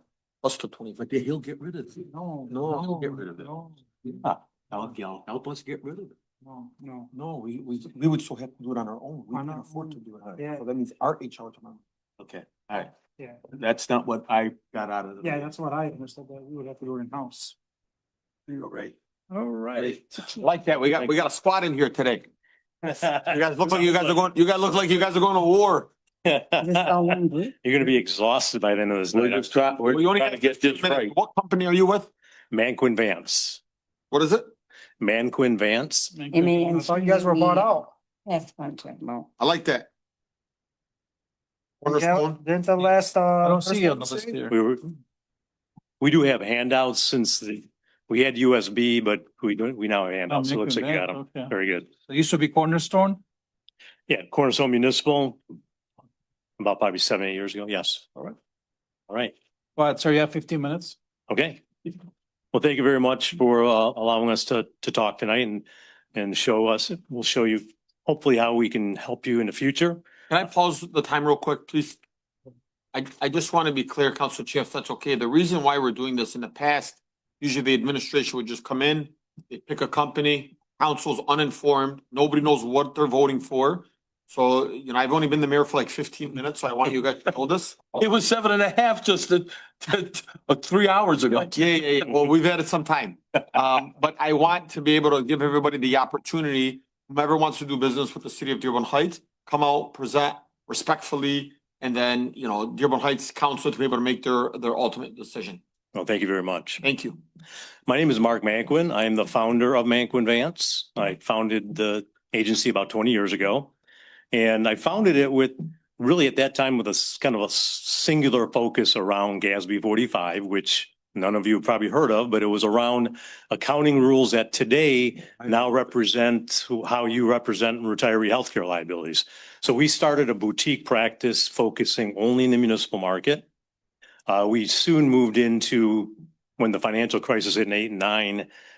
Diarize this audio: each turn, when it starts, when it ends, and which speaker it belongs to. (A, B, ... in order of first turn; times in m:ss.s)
0:00.4-0:01.1 A
0:01.0-0:03.5 B
0:02.0-0:03.9 C
0:02.5-0:02.8 A
0:04.1-0:06.2 B
0:06.4-0:07.1 C
0:07.1-0:11.7 A
0:08.6-0:08.9 B
0:09.3-0:10.6 C
0:11.6-0:12.9 B
0:13.5-0:15.5 B
0:15.2-0:17.6 C
0:18.5-0:19.0 B
0:19.3-0:20.0 D
0:20.3-0:22.3 A
0:22.9-0:24.1 E
0:23.1-0:25.9 A
0:26.3-0:29.6 E
0:26.6-0:27.5 F
0:29.1-0:31.1 B
0:29.8-0:32.1 A
0:32.5-0:33.6 E
0:34.1-0:34.5 A
0:35.0-0:36.1 E
0:36.1-0:36.9 D
0:36.3-0:37.8 F
0:36.7-0:37.9 C
0:38.3-0:39.3 F
0:39.4-0:39.9 A
0:41.8-0:44.4 C
0:41.8-0:42.4 A
0:43.4-0:44.6 D
0:44.5-0:44.9 E
0:46.0-0:51.9 E
0:50.3-0:51.5 D
0:52.1-0:53.2 D
0:54.1-0:55.4 E
0:56.6-0:58.1 E
0:59.1-0:59.4 E
0:59.8-1:01.0 D
1:01.3-1:02.0 E
1:02.5-1:10.0 E
1:10.3-1:12.0 A
1:12.9-1:27.9 A
1:27.9-1:32.3 B
1:31.4-1:45.6 A
1:45.9-1:46.8 E
1:46.8-1:47.2 A
1:47.9-1:53.7 E
1:54.3-2:13.5 E
2:14.3-2:18.5 E